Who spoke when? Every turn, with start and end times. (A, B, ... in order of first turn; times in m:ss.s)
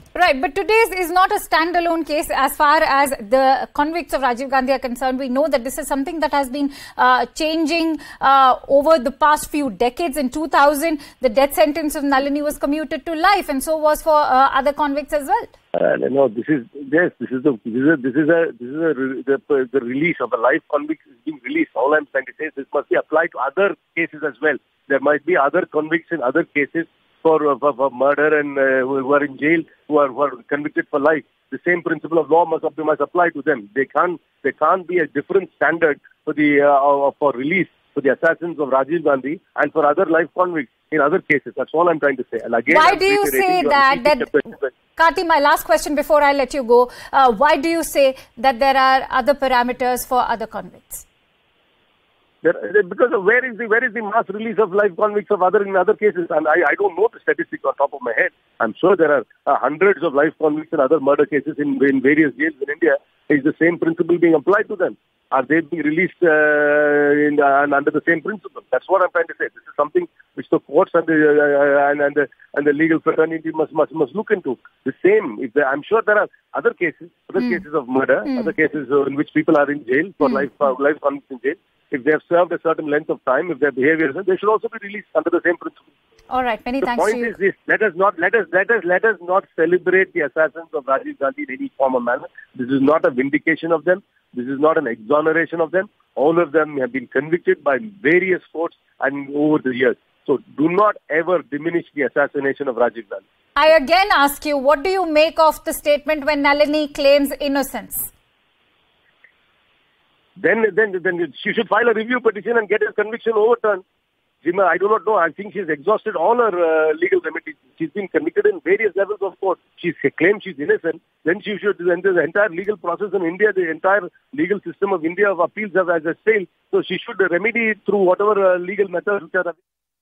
0:00.1-0:15.5 A
0:15.7-0:44.7 B
0:42.7-0:44.3 A
0:45.0-0:51.0 A
0:52.4-1:25.8 B
1:18.2-1:18.5 A
1:26.3-1:27.3 A
1:26.8-1:43.2 B
1:43.6-1:48.1 A
1:50.4-1:53.8 B
1:54.4-2:09.6 B